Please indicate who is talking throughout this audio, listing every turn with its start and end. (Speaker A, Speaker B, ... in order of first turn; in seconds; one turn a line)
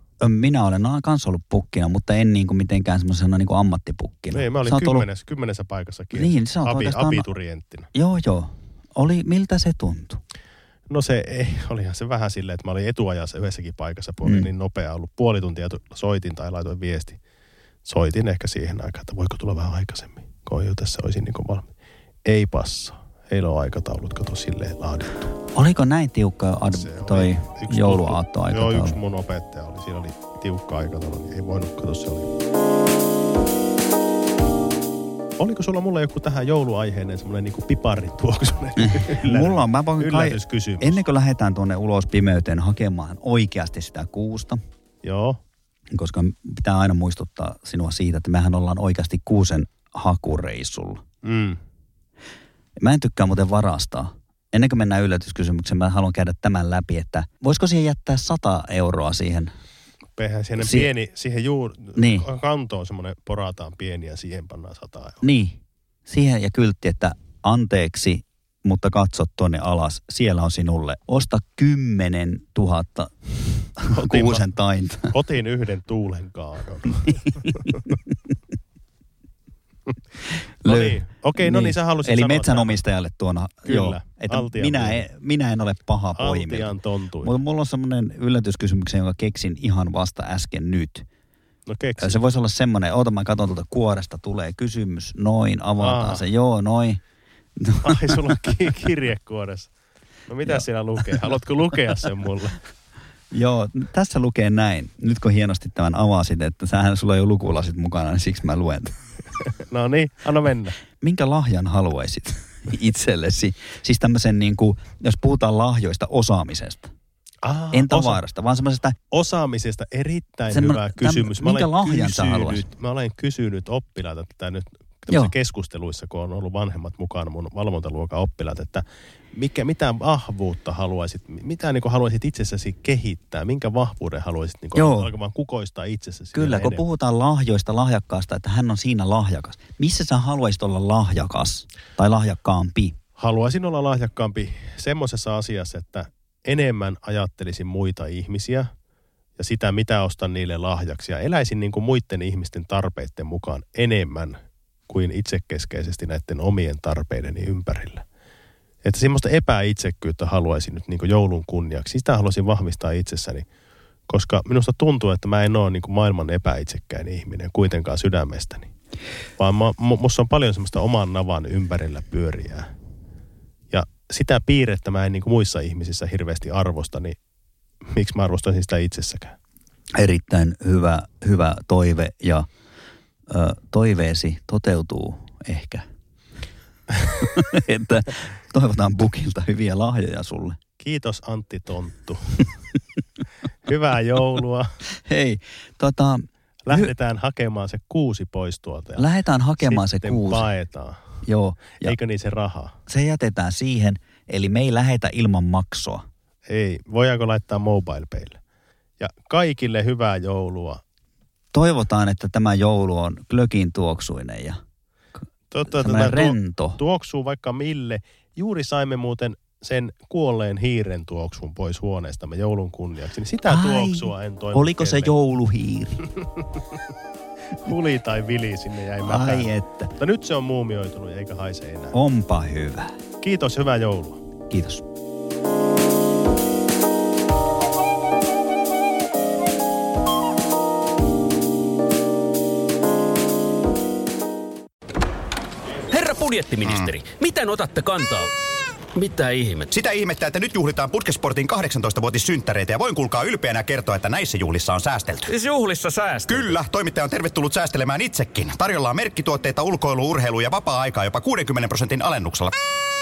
Speaker A: 0.2-5.0
Speaker B: 4.3-7.9
Speaker A: 6.1-7.3
Speaker A: 7.9-10.2
Speaker B: 10.9-17.2
Speaker A: 14.2-14.5
Speaker B: 17.8-21.7
Speaker B: 22.2-25.3
Speaker A: 25.5-29.0
Speaker B: 26.7-32.3
Speaker B: 35.4-41.0
Speaker A: 38.8-44.6
Speaker B: 45.0-45.4
Speaker A: 45.9-51.0
Speaker B: 51.2-51.6
Speaker A: 52.8-59.5
Speaker B: 60.2-65.2
Speaker A: 60.6-60.9
Speaker A: 62.0-62.3
Speaker A: 65.2-73.1
Speaker A: 73.8-75.1
Speaker B: 73.9-74.5
Speaker B: 75.1-77.8
Speaker B: 80.6-82.8
Speaker A: 80.6-91.0
Speaker B: 83.6-85.1
Speaker B: 86.2-87.3
Speaker B: 91.7-92.2
Speaker A: 92.0-97.0
Speaker B: 95.8-96.2
Speaker A: 97.6-98.5
Speaker B: 97.8-99.7
Speaker B: 100.3-102.6
Speaker A: 103.3-108.9
Speaker B: 109.6-110.8
Speaker A: 111.0-116.9
Speaker B: 117.4-118.2
Speaker A: 117.7-119.0
Speaker B: 119.1-136.8
Speaker A: 120.5-122.7
Speaker A: 134.8-135.1
Speaker A: 136.3-142.9
Speaker B: 143.2-148.7
Speaker B: 149.4-158.0
Speaker B: 158.8-163.4
Speaker B: 164.1-168.7
Speaker B: 169.4-172.7
Speaker B: 173.7-177.2
Speaker B: 177.9-179.3
Speaker A: 179.9-182.5
Speaker A: 183.3-185.8
Speaker A: 187.2-190.6
Speaker B: 190.8-192.4
Speaker B: 193.7-194.7
Speaker A: 195.0-196.9
Speaker B: 196.7-199.1
Speaker A: 199.0-200.5
Speaker B: 199.6-201.0
Speaker A: 201.2-202.0
Speaker B: 201.8-202.8
Speaker A: 202.9-206.0
Speaker B: 206.5-208.4
Speaker B: 209.0-210.8
Speaker A: 211.5-214.6
Speaker B: 215.5-225.1
Speaker A: 215.6-216.8
Speaker A: 223.4-226.0
Speaker B: 226.2-226.4
Speaker B: 227.6-231.9
Speaker A: 229.0-229.9
Speaker A: 231.9-232.9
Speaker B: 233.2-234.2
Speaker A: 234.5-234.8
Speaker C: 245.9-248.3
Speaker D: 246.6-246.9
Speaker C: 248.9-249.7
Speaker D: 249.7-255.3
Speaker C: 255.3-256.6
Speaker D: 256.2-262.5